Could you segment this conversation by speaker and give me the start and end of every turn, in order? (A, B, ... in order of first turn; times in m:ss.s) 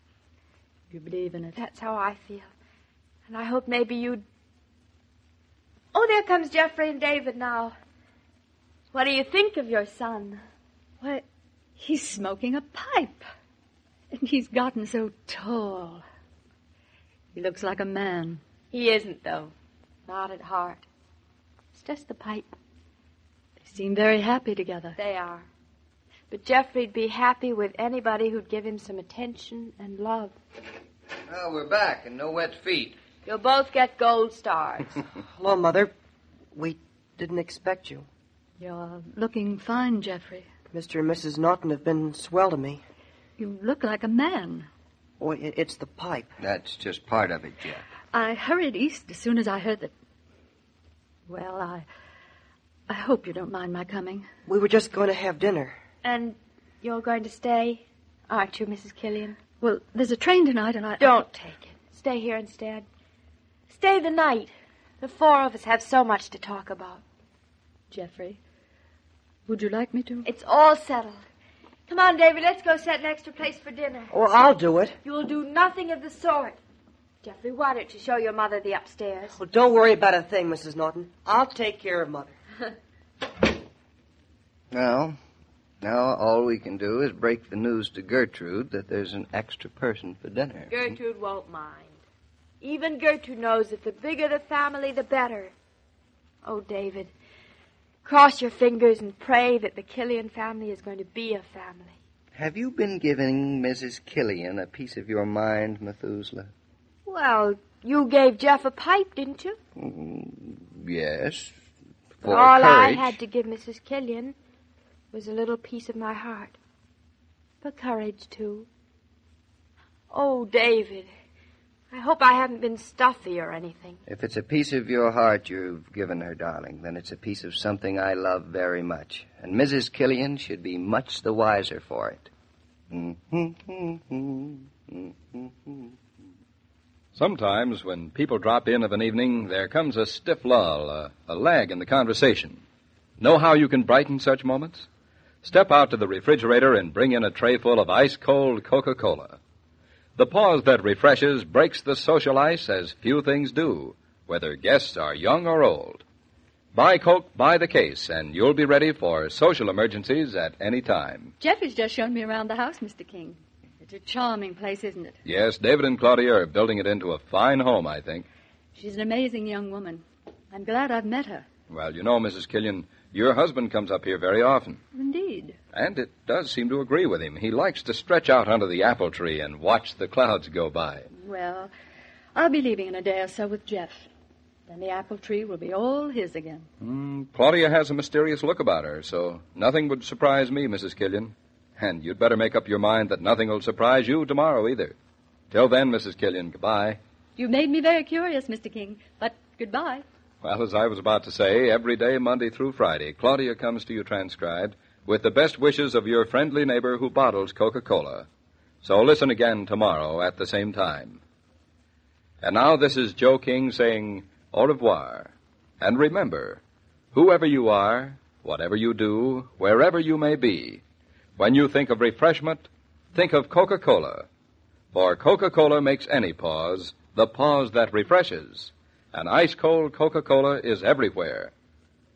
0:00.9-0:01.6 A
0:01.6-0:02.5 B
0:03.3-0:04.2 B
0:05.9-0:07.7 B
0:08.9-0:10.4 B
0:11.8-0:13.2 A
0:14.1-0:16.0 A
0:17.3-0:18.4 A
0:18.7-0:19.5 B
0:20.1-0:20.9 B
0:21.7-0:22.6 B
0:23.6-0:25.0 A
0:25.0-0:25.5 B
0:26.3-0:30.4 B
0:31.3-0:33.0 C
0:33.2-0:35.0 B
0:35.2-0:35.9 D
0:36.5-0:38.1 D
0:38.6-0:40.5 A
0:40.7-0:42.8 D
0:43.4-0:44.7 A
0:45.2-0:46.3 D
0:46.4-0:47.8 C
0:48.1-0:49.9 A
0:51.3-0:51.9 A
0:52.9-0:54.3 A
0:54.5-0:55.8 D
0:56.0-0:59.4 B
0:59.6-1:01.3 A
1:01.0-1:02.9 B
1:03.7-1:07.0 B
1:07.9-1:08.4 A
1:09.5-1:10.3 A
1:10.2-1:11.2 B
1:11.9-1:14.1 B
1:14.1-1:15.0 D
1:15.0-1:16.6 B
1:17.2-1:19.4 B
1:19.4-1:22.4 D
1:24.7-1:25.2 C
1:25.8-1:30.7 C
1:30.7-1:32.0 B
1:32.6-1:35.5 B
1:36.4-1:37.1 B
1:38.0-1:42.0 B
1:42.4-1:46.5 C
1:47.1-1:49.6 B
1:49.8-1:51.6 C
1:52.2-1:53.2 C
1:52.2-1:54.4 B
1:55.1-1:56.6 B
1:57.6-1:58.7 B
2:00.1-2:01.1 B
2:01.9-2:04.0 B
2:04.1-2:12.3 C
2:12.9-2:15.9 C
2:17.1-2:22.6 E
2:23.2-2:24.9 E
2:25.4-2:29.4 E
2:30.2-2:36.0 E
2:36.7-2:41.3 E
2:41.4-2:45.2 A
2:45.2-2:48.3 E
2:48.7-2:51.5 A
2:51.7-2:54.8 E
2:54.9-2:55.6 A
2:55.7-3:01.1 E
3:01.1-3:01.7 A
3:02.3-3:04.1 A
3:04.7-3:06.7 A
3:06.8-3:15.0 E
3:15.5-3:17.0 E
3:17.4-3:20.0 A
3:20.4-3:28.3 E
3:28.8-3:31.2 E
3:32.4-3:40.8 E
3:41.4-3:44.3 E
3:44.9-3:51.5 E